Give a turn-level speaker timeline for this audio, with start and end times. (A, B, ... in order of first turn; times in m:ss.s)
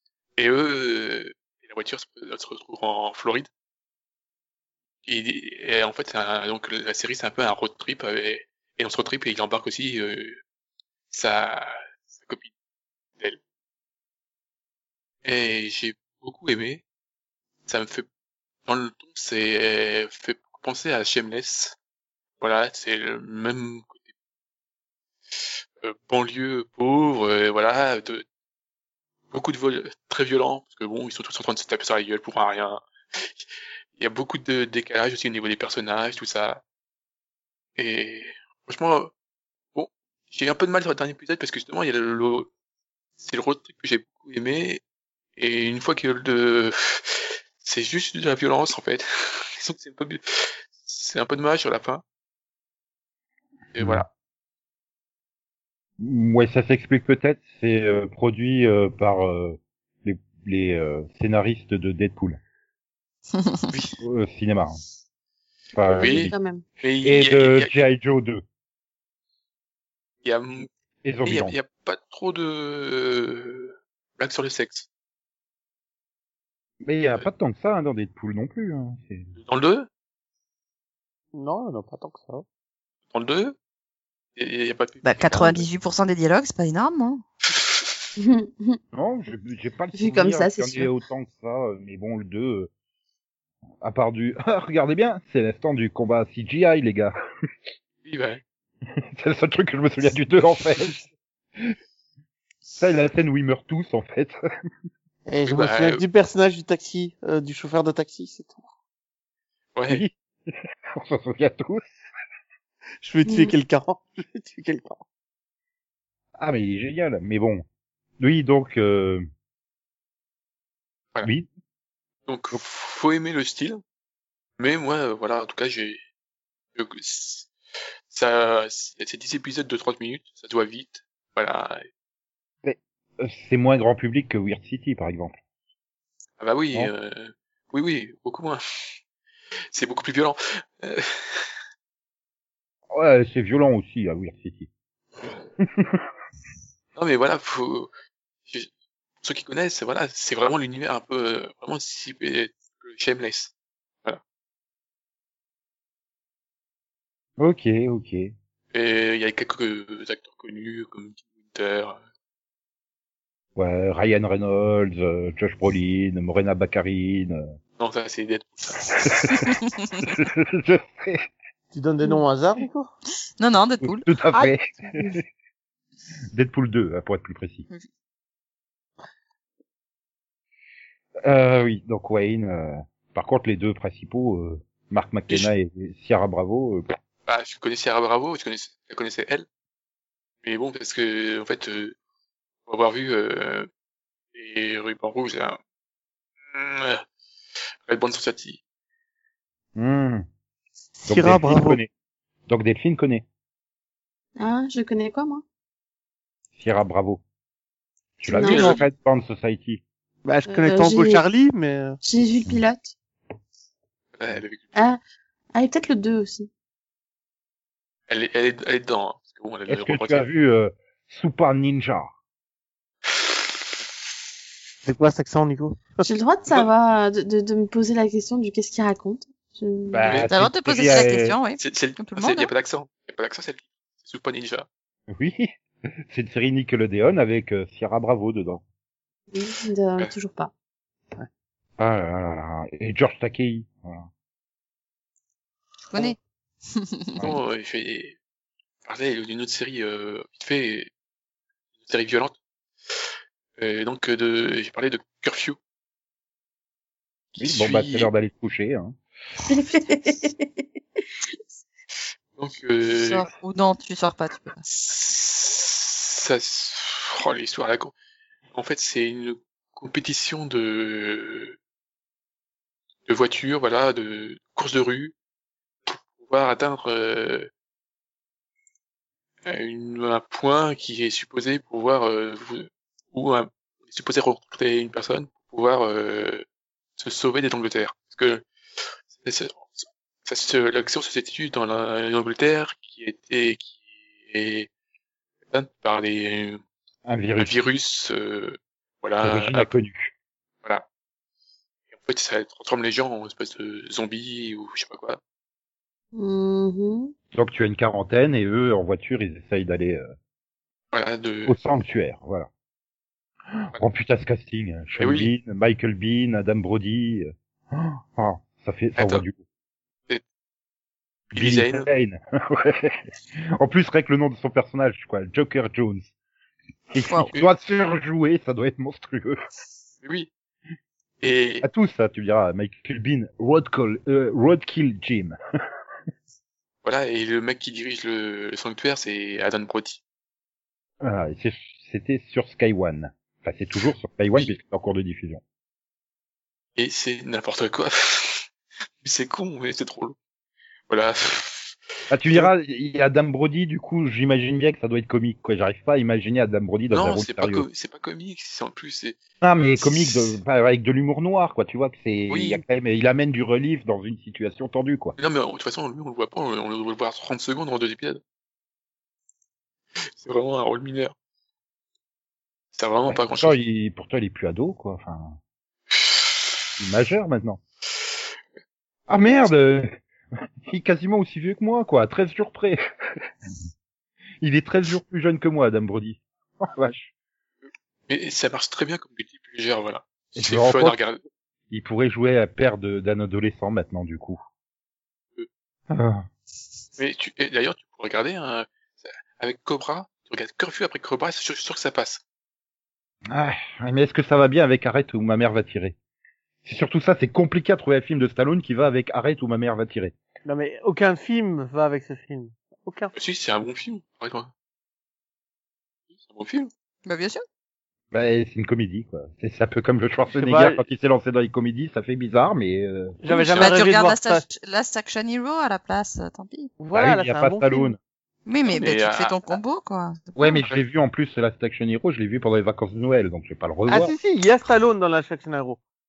0:00.4-0:03.5 A
0:05.0-0:10.4 A
0:11.1-0:12.5 A
0:15.2-0:16.8 A
0:17.6-0:18.0 A
0:18.6-0:21.8 A
0:22.4-0:24.0 A
0:25.8-0:28.2 A
0:29.3-0:36.6 A
0:37.8-0:39.1 A
0:39.7-0:42.5 A
0:43.2-0:44.8 A
0:45.4-0:52.0 A
0:53.7-0:54.1 A
0:53.8-0:54.0 B
0:56.0-1:02.4 B
1:04.0-1:04.8 B
1:05.7-1:06.3 B
1:05.9-1:06.6 C
1:06.0-1:07.7 A
1:07.0-1:08.4 B
1:10.2-1:10.7 A
1:11.0-1:11.6 B
1:11.2-1:14.9 A
1:16.8-1:19.3 B
1:19.4-1:19.9 A
1:21.3-1:22.4 D
1:23.1-1:23.6 A
1:24.4-1:25.6 A
1:25.0-1:27.2 E
1:28.2-1:28.8 C
1:28.9-1:32.7 B
1:30.0-1:30.9 C
1:33.8-1:37.1 B
1:38.0-1:38.4 A
1:39.2-1:41.0 B
1:42.8-1:44.4 B
1:45.2-1:48.6 D
1:45.4-1:46.0 A
1:49.8-1:50.0 A
1:49.9-1:51.9 B
1:53.0-1:55.0 D
1:53.2-1:53.5 C
1:56.4-1:57.6 B
1:58.2-1:59.3 B
2:01.2-2:01.5 B
2:02.3-2:03.8 A
2:04.6-2:06.0 A
2:06.7-2:07.5 A
2:08.1-2:11.9 A
2:12.6-2:15.4 B
2:16.4-2:18.6 A
2:19.7-2:21.5 A
2:22.9-2:24.7 B
2:25.6-2:26.0 B
2:26.9-2:27.9 A
2:29.2-2:33.5 A
2:37.4-2:38.3 B
2:38.7-2:42.0 A
2:43.6-2:47.5 B
2:47.8-2:49.2 A
2:49.3-2:50.0 E
2:50.1-2:51.3 B
2:51.7-2:52.9 D
2:53.4-2:54.0 E
2:53.8-2:54.8 B
2:56.3-2:57.6 B
3:01.2-3:06.9 B
3:07.2-3:09.4 A
3:10.4-3:12.0 A
3:12.7-3:13.7 A
3:14.3-3:15.6 A
3:16.5-3:17.0 A
3:17.8-3:18.6 A
3:19.8-3:20.2 B
3:21.0-3:21.8 D
3:21.1-3:21.9 B
3:22.5-3:23.2 B
3:24.4-3:25.4 C
3:26.6-3:27.2 B
3:28.2-3:29.8 B
3:28.3-3:28.8 C
3:28.4-3:28.8 A
3:30.2-3:32.0 D
3:30.5-3:31.2 C
3:32.0-3:32.9 C
3:34.2-3:34.6 A
3:35.5-3:36.5 C
3:38.1-3:40.3 A
3:39.7-3:42.1 B
3:44.8-3:45.9 D
3:46.0-3:50.1 C
3:49.9-3:51.4 B
3:50.3-3:52.5 E
3:51.6-3:54.7 A
3:55.1-3:55.5 B
3:56.1-3:58.6 B
3:59.3-4:00.5 C
4:01.8-4:04.1 B
4:05.9-4:06.2 E
4:06.7-4:07.2 E
4:07.2-4:08.2 A
4:08.8-4:10.9 A
4:11.8-4:12.4 A
4:13.6-4:15.6 A
4:17.3-4:18.1 A
4:17.4-4:19.0 B
4:19.4-4:20.6 C
4:22.4-4:23.2 A
4:22.9-4:24.6 E
4:24.6-4:27.9 A
4:28.5-4:31.6 A
4:33.1-4:35.1 A
4:35.9-4:37.5 A
4:39.4-4:46.4 A
4:47.0-4:48.4 A
4:49.2-4:54.7 A
4:55.5-4:56.6 A
4:57.0-4:57.5 B
4:57.4-4:59.7 A
4:59.2-5:00.1 B
5:01.9-5:05.2 A
5:06.1-5:07.1 C
5:07.3-5:10.1 B
5:10.9-5:11.6 A
5:11.4-5:12.5 B
5:13.6-5:19.4 B
5:15.0-5:15.3 A
5:19.0-5:19.2 A
5:21.3-5:21.9 A
5:21.3-5:23.0 B
5:23.6-5:26.1 B
5:26.9-5:29.4 B
5:30.0-5:30.3 A
5:31.2-5:31.6 A
5:31.6-5:35.4 B
5:36.8-5:40.0 A
5:41.0-5:45.4 B
5:46.8-5:48.4 A
5:49.0-5:50.1 A
5:50.9-5:51.8 A
5:52.1-5:57.6 B
5:56.9-5:59.2 A
5:59.4-6:05.1 B
5:59.8-6:00.3 A
6:02.3-6:02.6 A
6:05.2-6:08.2 A
6:10.2-6:11.1 A
6:12.7-6:13.6 A
6:13.1-6:15.4 B
6:15.9-6:16.5 A
6:16.8-6:17.6 B
6:19.1-6:20.0 B
6:20.6-6:22.8 B
6:24.4-6:27.1 B
6:28.1-6:31.2 A
6:30.4-6:31.0 B
6:31.7-6:34.4 B
6:35.9-6:36.2 B
6:37.0-6:42.2 A
6:43.3-6:45.9 B
6:46.6-6:50.1 B
6:50.4-6:53.1 D
6:53.1-6:54.5 A
6:56.2-6:56.7 A
6:57.0-6:57.4 E
6:58.1-7:03.2 B
7:00.3-7:00.8 D
7:03.2-7:04.4 D
7:03.3-7:06.7 E
7:06.8-7:07.9 D
7:06.9-7:08.0 B
7:08.4-7:10.6 E
7:08.6-7:09.5 A
7:10.4-7:14.1 B
7:13.9-7:15.8 D